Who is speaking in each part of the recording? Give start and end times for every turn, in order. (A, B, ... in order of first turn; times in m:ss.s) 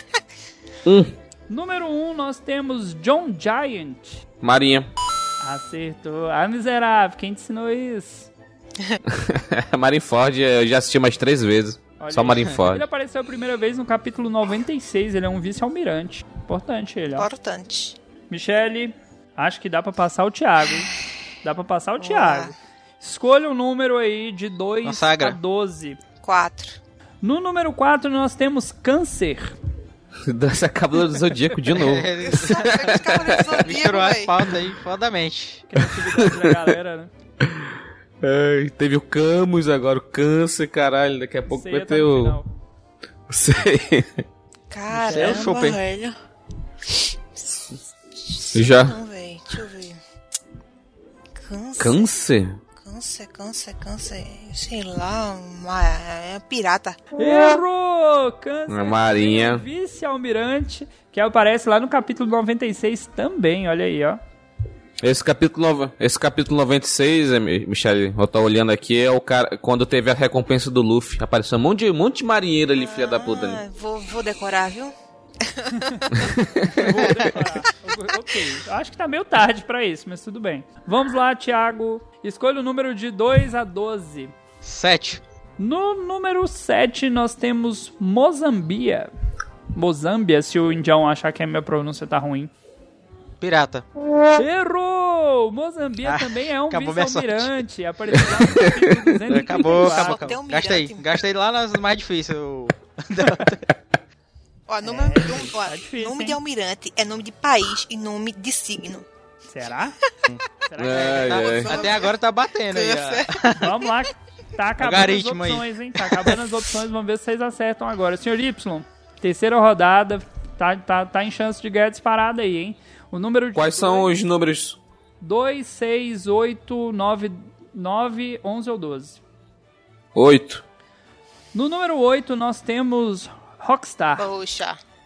0:00.8-0:01.1 A
0:01.5-0:04.2 B
0:04.4-0:04.9 A
0:05.4-0:08.3 B
0:09.1-0:12.8 A
0:12.0-0:17.3 B
0:17.2-0:18.0 C
0:18.3-0:20.9 B
0:21.4-0:26.0 B
0:22.0-0:22.5 C
0:24.8-0:25.4 D
0:26.2-0:26.8 C
0:27.2-0:29.6 B
0:30.3-0:33.7 A
0:31.7-0:35.7 D
0:32.2-0:34.4 C
0:35.7-0:37.1 B
0:36.1-0:36.6 A
0:37.4-0:42.4 A
0:41.5-0:42.5 B
0:43.3-0:44.2 A
0:44.7-0:46.2 C
0:44.9-0:45.5 B
0:45.1-0:45.8 D
0:48.2-0:50.0 C
0:48.5-0:49.0 A
0:51.3-0:52.1 C
0:51.8-0:52.6 A
0:52.8-0:57.0 C
0:57.2-1:04.2 B
0:58.7-0:59.6 A
1:05.0-1:13.6 A
1:12.7-1:16.3 C
1:15.8-1:16.1 B
1:16.2-1:16.9 A
1:16.7-1:24.3 B
1:24.6-1:25.2 D
1:25.6-1:29.1 B
1:29.7-1:32.5 B
1:33.4-1:33.8 D
1:34.4-1:40.2 B
1:36.0-1:37.5 D
1:38.5-1:39.0 A
1:39.3-1:43.6 D
1:39.6-1:41.1 C
1:44.7-1:49.1 C
1:44.8-1:46.4 B
1:49.5-1:50.0 B
1:50.7-1:51.8 B
1:50.8-1:51.8 A
1:51.0-1:53.7 D
1:51.4-1:53.7 C
1:53.6-2:04.1 B
1:54.8-1:55.6 D
2:03.6-2:04.8 A
2:05.2-2:09.2 B
2:10.2-2:10.6 A
2:11.5-2:14.3 B
2:14.2-2:14.8 C